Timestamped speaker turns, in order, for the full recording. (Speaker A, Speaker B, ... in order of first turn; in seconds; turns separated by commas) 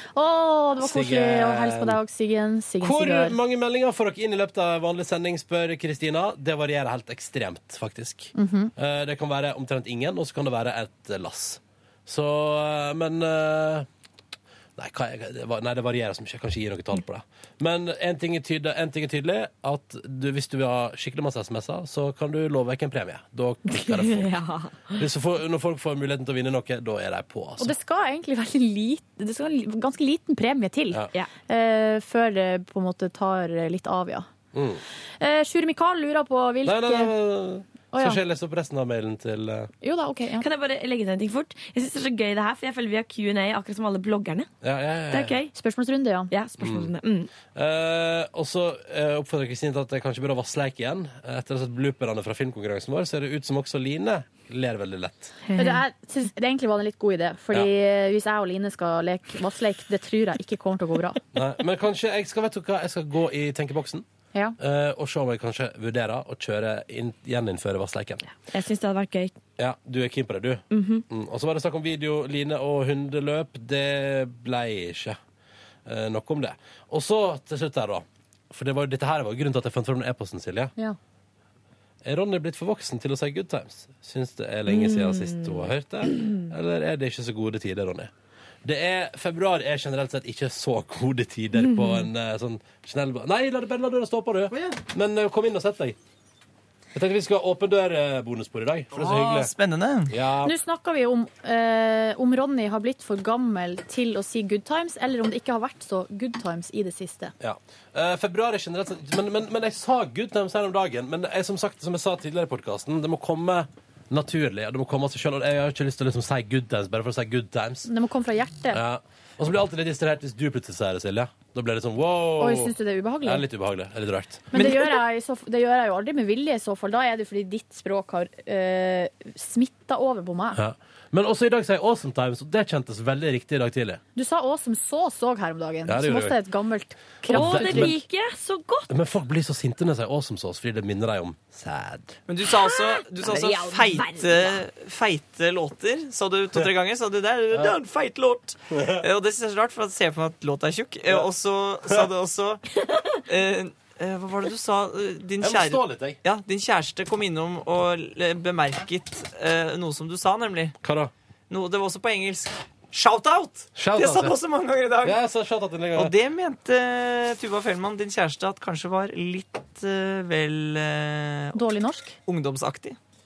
Speaker A: 0.1-3.4, Speaker B: 0.8-2.0, Speaker B: 2.8-13.9, Speaker A: 8.3-8.7, Speaker B: 14.8-24.3, Speaker C: 23.7-25.0, Speaker B: 24.9-27.7, Speaker A: 27.6-34.3, Speaker B: 34.5-34.8, Speaker A: 35.2-37.1, Speaker B: 36.6-39.7, Speaker A: 37.9-38.2, Speaker A: 39.8-40.5, Speaker C: 40.4-44.5, Speaker B: 44.6-45.4, Speaker C: 45.1-45.5, Speaker A: 45.5-46.3, Speaker C: 46.3-47.3, Speaker B: 46.6-46.9, Speaker B: 47.5-55.3, Speaker C: 55.5-55.8, Speaker A: 55.5-61.2, Speaker B: 61.3-64.0, Speaker B: 64.6-68.2, Speaker C: 68.5-69.3, Speaker B: 69.6-75.2, Speaker C: 70.7-71.0, Speaker B: 75.8-80.7, Speaker B: 82.0-88.1, Speaker C: 84.7-85.7, Speaker B: 88.6-96.0, Speaker C: 91.6-92.0, Speaker B: 96.9-99.5, Speaker D: 98.9-100.1, Speaker B: 100.1-100.5, Speaker A: 100.4-107.3, Speaker B: 107.4-117.9, Speaker A: 117.9-118.8, Speaker B: 118.7-124.6, Speaker A: 122.4-123.5, Speaker A: 124.5-130.6, Speaker B: 130.5-134.0, Speaker A: 134.2-137.9, Speaker B: 135.8-136.4, Speaker B: 137.3-138.0, Speaker C: 137.3-138.9, Speaker B: 138.9-142.2, Speaker D: 142.3-152.6, Speaker C: 142.6-144.6, Speaker B: 148.7-149.0, Speaker D: 153.3-160.7, Speaker B: 155.4-156.2, Speaker B: 160.8-161.1, Speaker D: 161.5-165.2, Speaker B: 163.7-164.3, Speaker B: 165.0-166.1, Speaker D: 165.9-171.6, Speaker A: 171.5-172.2, Speaker D: 172.2-173.0